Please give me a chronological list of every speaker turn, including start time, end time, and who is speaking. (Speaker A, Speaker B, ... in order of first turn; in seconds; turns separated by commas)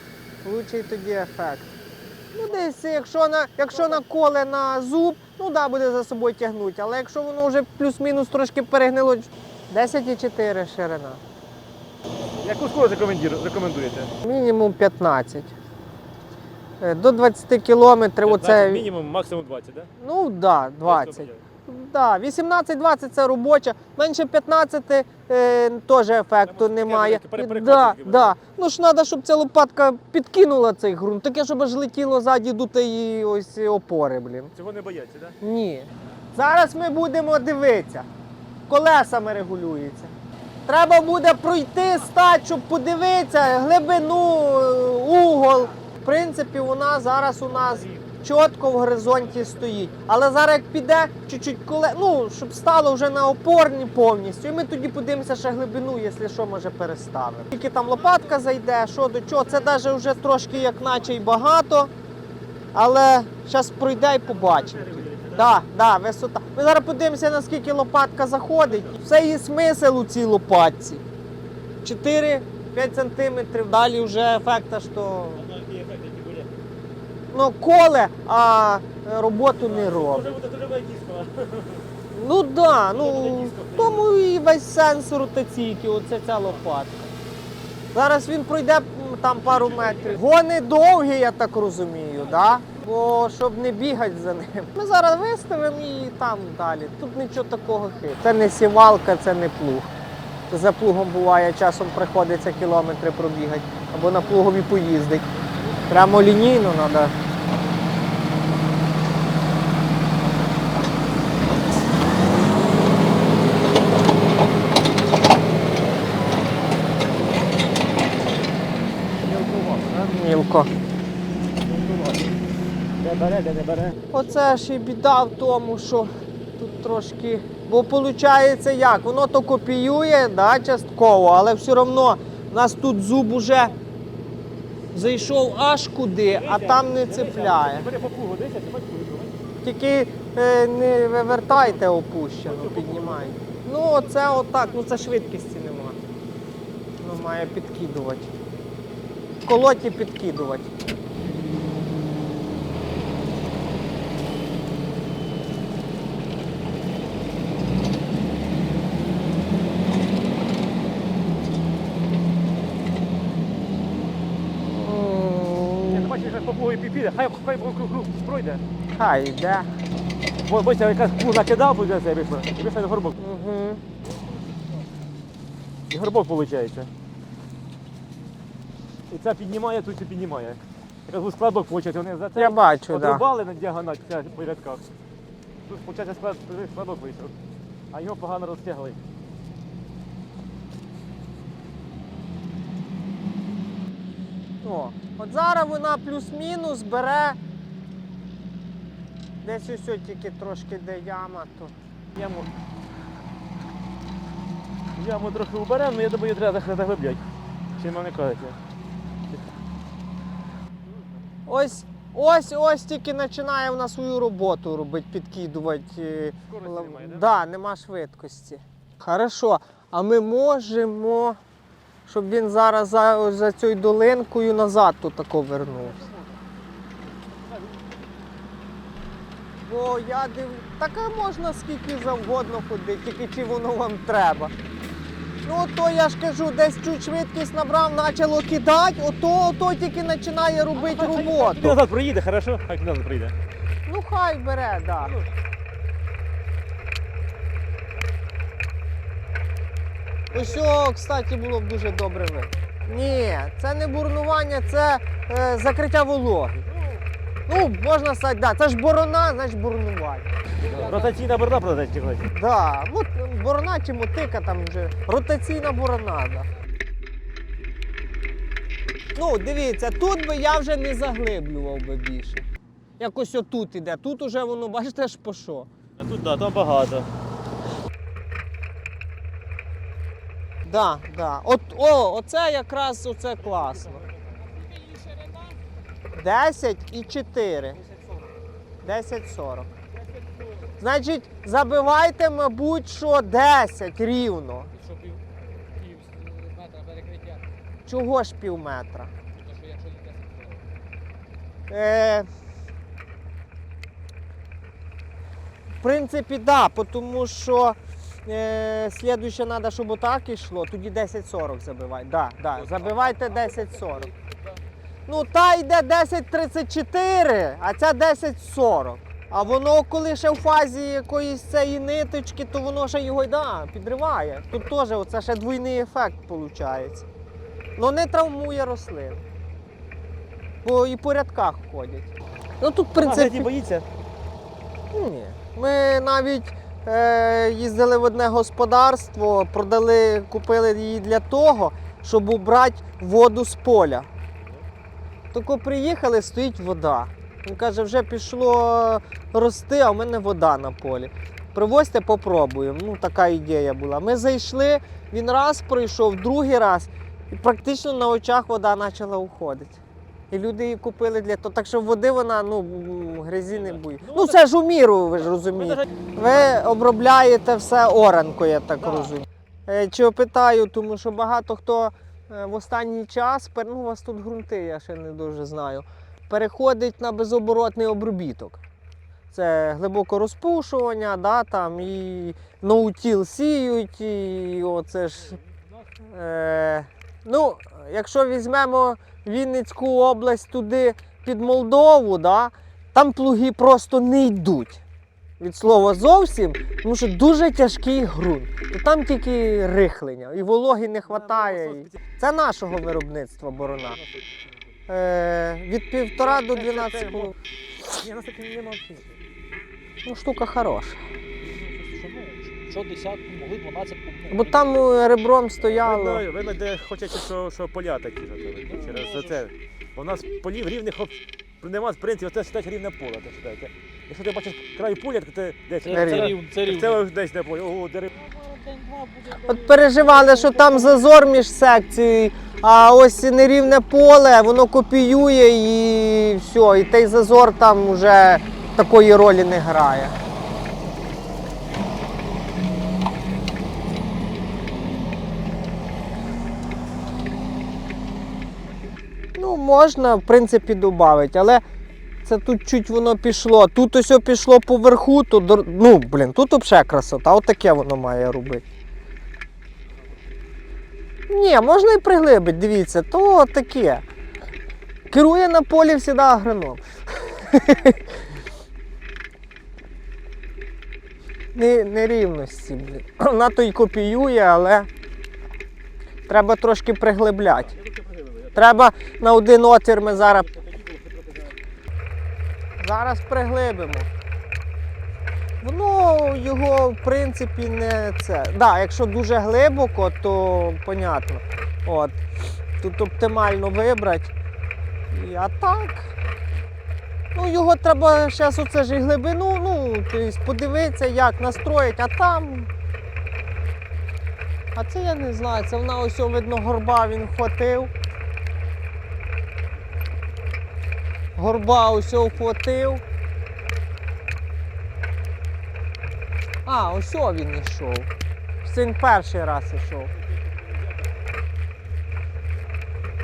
Speaker A: 0.4-1.7, Speaker A: 2.3-11.2, Speaker B: 12.4-14.1, Speaker A: 14.2-15.5, Speaker A: 16.8-18.9, Speaker B: 18.2-19.9, Speaker A: 20.0-34.5, Speaker B: 20.9-21.4, Speaker B: 26.4-28.4, Speaker B: 34.5-35.4, Speaker A: 35.4-38.1, Speaker A: 38.7-40.1, Speaker A: 40.7-61.9, Speaker A: 62.7-71.0, Speaker B: 64.2-65.5, Speaker A: 71.8-75.5, Speaker B: 75.4-76.5, Speaker A: 77.3-80.3, Speaker B: 79.5-81.8, Speaker A: 82.1-87.1, Speaker B: 82.9-84.1, Speaker A: 87.9-99.9, Speaker B: 89.5-90.2, Speaker A: 100.5-105.3, Speaker A: 105.9-107.2, Speaker B: 119.2-120.1, Speaker A: 120.1-120.7, Speaker B: 121.6-122.3, Speaker B: 123.0-124.1, Speaker A: 124.1-133.7, Speaker A: 134.9-137.9, Speaker B: 136.2-139.4, Speaker A: 139.6-146.0, Speaker B: 141.3-141.8, Speaker B: 142.4-143.4, Speaker B: 144.2-145.1, Speaker A: 147.0-148.3, Speaker A: 149.4-150.7, Speaker A: 164.8-166.1, Speaker B: 165.9-168.6, Speaker A: 168.9-169.7, Speaker B: 170.4-173.2, Speaker A: 173.2-173.8, Speaker B: 175.9-176.9, Speaker B: 179.1-184.9, Speaker A: 182.4-183.2, Speaker B: 185.7-187.3, Speaker B: 187.9-189.0, Speaker A: 194.6-197.4, Speaker A: 199.4-201.7, Speaker B: 202.1-202.5, Speaker B: 205.0-207.2, Speaker B: 207.8-208.6, Speaker A: 211.5-221.4, Speaker B: 216.5-217.3, Speaker A: 222.1-226.1, Speaker A: 229.6-234.5, Speaker A: 235.4-241.8, Speaker B: 240.8-243.3, Speaker A: 243.9-245.1, Speaker A: 250.3-256.7, Speaker A: 257.5-260.3, Speaker B: 260.6-262.3, Speaker A: 262.3-266.5, Speaker A: 269.1-272.5, Speaker A: 273.0-275.7, Speaker B: 276.0-277.1, Speaker A: 280.7-284.1, Speaker B: 283.6-284.1, Speaker C: 284.6-285.6, Speaker A: 286.1-287.8, Speaker A: 288.8-289.7, Speaker A: 290.8-294.7, Speaker C: 294.8-295.2, Speaker C: 295.8-297.4, Speaker A: 297.9-299.1, Speaker C: 299.4-300.6, Speaker A: 301.7-302.3, Speaker A: 305.8-314.1, Speaker B: 312.6-313.3, Speaker A: 315.1-327.1, Speaker A: 327.8-329.2, Speaker A: 330.6-333.5, Speaker B: 333.0-333.9, Speaker A: 334.9-344.1, Speaker A: 345.3-359.8, Speaker A: 360.3-378.6, Speaker B: 363.5-364.4, Speaker B: 365.4-365.9, Speaker B: 368.8-369.1, Speaker A: 379.3-385.4, Speaker A: 386.0-394.8, Speaker A: 395.4-404.0, Speaker B: 401.1-402.0, Speaker B: 403.9-404.4, Speaker A: 404.9-407.3, Speaker B: 406.2-407.4, Speaker B: 407.9-409.2, Speaker A: 410.1-411.0, Speaker C: 411.4-414.8, Speaker A: 414.3-416.3, Speaker B: 415.6-428.3, Speaker C: 418.7-419.4, Speaker C: 425.9-427.0, Speaker A: 425.9-426.4, Speaker C: 428.2-430.7, Speaker A: 429.4-440.1, Speaker A: 449.4-451.6, Speaker A: 452.2-458.6, Speaker A: 461.3-464.0, Speaker A: 465.1-468.0, Speaker A: 471.6-474.9, Speaker A: 476.3-477.8, Speaker B: 477.8-478.6, Speaker A: 478.6-480.5, Speaker B: 480.5-481.5, Speaker A: 482.8-484.1, Speaker A: 485.6-492.2, Speaker A: 492.8-494.3, Speaker A: 495.1-496.1, Speaker A: 497.4-502.7, Speaker A: 504.8-507.9, Speaker A: 511.4-513.0, Speaker A: 516.6-518.1, Speaker A: 518.6-520.1